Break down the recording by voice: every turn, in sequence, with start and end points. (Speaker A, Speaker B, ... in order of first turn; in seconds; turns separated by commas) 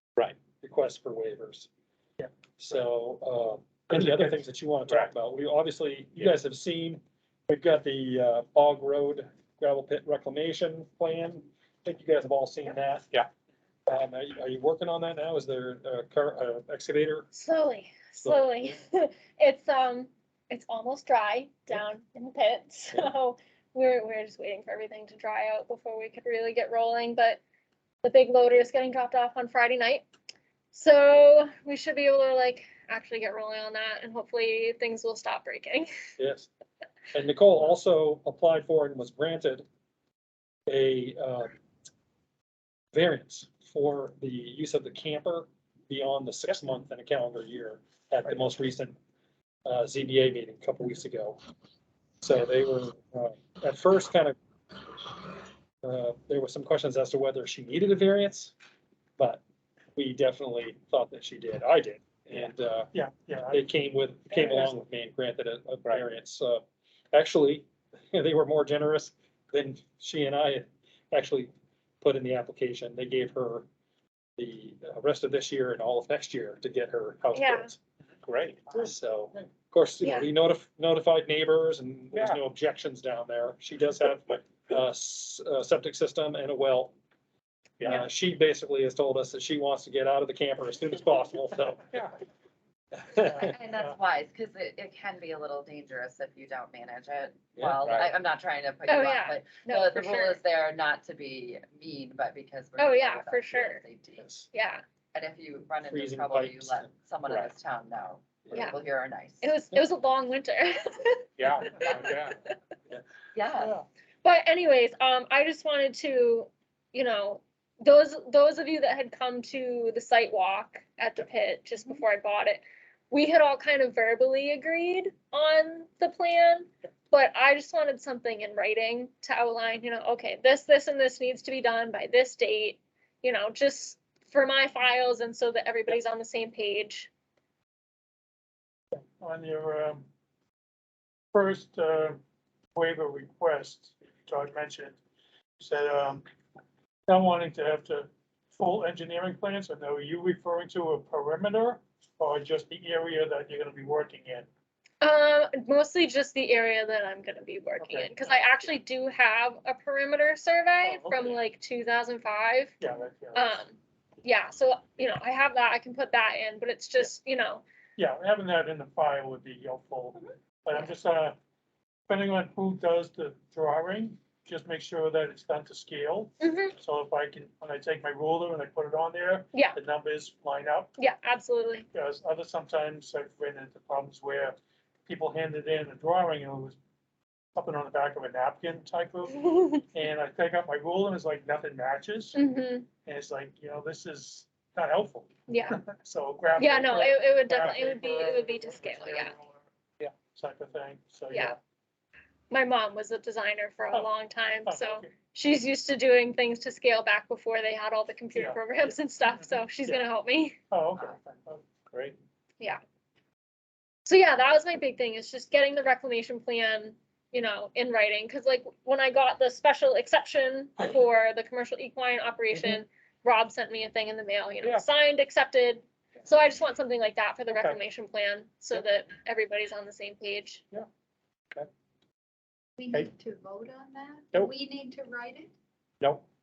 Speaker A: 0.5-1.7, Speaker A: 2.6-13.1, Speaker B: 3.9-5.1, Speaker A: 13.9-17.3, Speaker C: 17.3-27.4, Speaker C: 28.0-30.1, Speaker C: 30.7-35.9, Speaker A: 36.2-36.5, Speaker A: 37.1-39.6, Speaker A: 40.7-41.5, Speaker A: 42.9-49.0, Speaker A: 49.6-51.4, Speaker A: 52.2-54.3, Speaker A: 55.8-58.5, Speaker A: 60.0-62.9, Speaker D: 62.9-63.7, Speaker A: 63.5-73.7, Speaker D: 64.3-64.8, Speaker A: 74.4-77.8, Speaker C: 77.3-77.7, Speaker B: 78.2-78.8, Speaker A: 78.7-86.9, Speaker C: 80.0-80.3, Speaker B: 82.1-82.4, Speaker B: 87.8-88.0, Speaker A: 87.8-91.9, Speaker A: 93.0-93.5, Speaker E: 93.2-104.3, Speaker B: 97.6-98.1, Speaker C: 98.8-100.4, Speaker C: 102.8-103.8, Speaker A: 104.2-104.5, Speaker C: 104.5-104.8, Speaker E: 105.1-109.6, Speaker A: 105.9-107.5, Speaker C: 109.4-112.5, Speaker B: 111.4-112.4, Speaker E: 113.3-113.8, Speaker C: 114.2-137.1, Speaker D: 138.9-140.1, Speaker D: 141.3-142.2, Speaker D: 142.8-145.0, Speaker D: 145.6-146.2, Speaker D: 147.1-154.5, Speaker C: 155.0-162.8, Speaker D: 157.8-158.5, Speaker D: 160.8-161.4, Speaker D: 162.8-163.6, Speaker C: 163.3-167.6, Speaker D: 168.0-171.4, Speaker D: 172.1-180.9, Speaker C: 176.4-176.7, Speaker C: 181.0-181.9, Speaker D: 181.9-186.8, Speaker D: 187.5-192.4, Speaker C: 189.3-189.8, Speaker C: 192.3-192.9, Speaker D: 193.0-199.6, Speaker C: 195.5-195.8, Speaker C: 196.6-199.3, Speaker D: 200.2-201.6, Speaker C: 202.5-210.6, Speaker D: 204.7-205.1, Speaker D: 208.3-208.6, Speaker D: 210.7-211.6, Speaker B: 211.9-212.2, Speaker C: 214.0-230.6, Speaker B: 227.5-227.8, Speaker F: 232.8-235.5